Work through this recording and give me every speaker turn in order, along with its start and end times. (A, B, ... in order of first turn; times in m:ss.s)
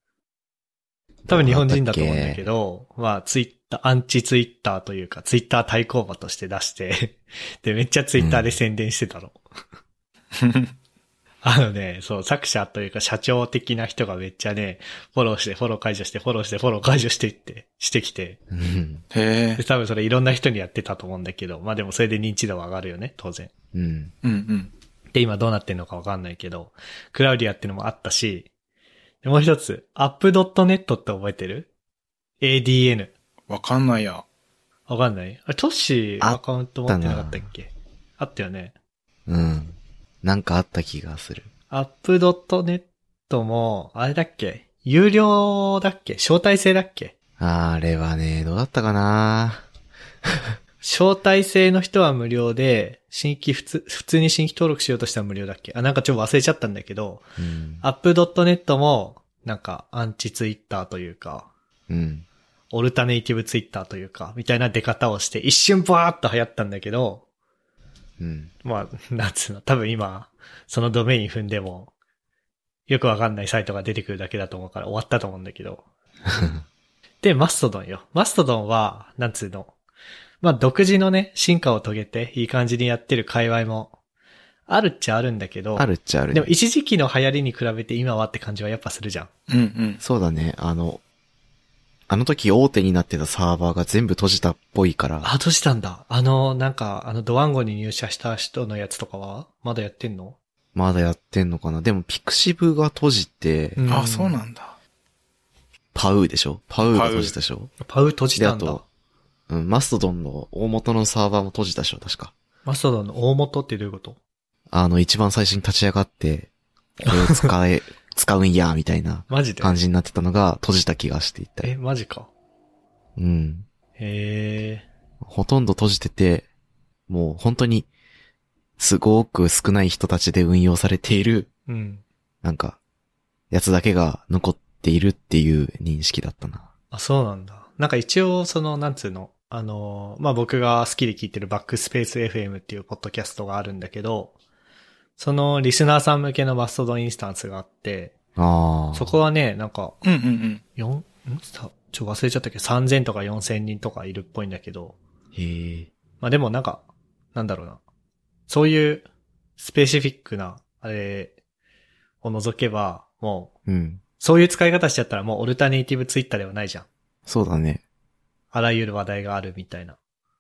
0:01.3-0:02.5 A
0:01.3-0:09.4 B
0:08.2-0:08.6 A
0:10.4-0:10.7 C
0:11.4-0:18.4 B
0:18.5-0:19.0 A
0:19.1-0:19.6 C
0:19.6-0:23.5 B
0:23.7-0:24.1 A
0:24.2-0:24.7 C
0:25.1-0:28.5 B
0:29.2-0:31.7 B
0:32.4-0:33.1 B
0:33.5-0:34.2 C
0:34.9-0:38.7 B
0:36.2-0:37.5 A
0:39.3-0:41.5 A
0:41.7-0:47.1 B
0:47.4-0:49.6 A
0:50.8-0:57.2 B
0:57.4-0:57.8 A
0:57.8-1:01.5 B
1:01.9-1:02.3 A
1:02.7-1:07.2 B
1:08.2-1:08.5 A
1:08.6-1:11.9 B
1:12.9-1:15.8 B
1:16.4-1:16.6 A
1:17.2-1:19.7 B
1:20.4-1:23.9 B
1:24.7-1:29.3 B
1:25.8-1:26.5 A
1:29.5-1:30.0 C
1:30.0-1:31.0 A
1:32.1-1:35.3 A
1:35.2-1:40.4 B
1:40.8-1:43.8 A
1:43.8-1:44.4 B
1:43.9-1:44.8 C
1:45.9-1:47.7 A
1:46.8-1:47.4 C
1:47.8-1:48.8 B
1:48.4-1:48.8 A
1:49.5-1:52.3 A
1:52.6-1:54.2 B
1:54.7-1:56.5 A
1:57.0-2:01.7 A
1:57.1-1:57.5 B
1:59.3-1:59.8 B
2:01.6-2:02.3 B
2:03.2-2:03.7 A
2:04.0-2:04.9 B
2:05.2-2:06.5 A
2:07.1-2:07.9 A
2:08.8-2:11.5 A
2:11.7-2:12.0 B
2:12.4-2:12.8 A
2:13.5-2:16.7 A
2:16.9-2:24.3 B
2:25.2-2:28.1 B
2:28.4-2:29.2 A
2:28.9-2:30.0 B
2:30.0-2:30.6 C
2:30.8-2:35.0 B
2:35.3-2:35.9 A
2:36.2-2:37.8 B
2:38.5-2:39.0 B
2:39.6-2:41.3 B
2:42.2-2:43.5 B
2:43.7-2:44.0 A
2:44.2-2:46.9 B
2:47.3-2:47.8 A
2:48.5-2:50.0 B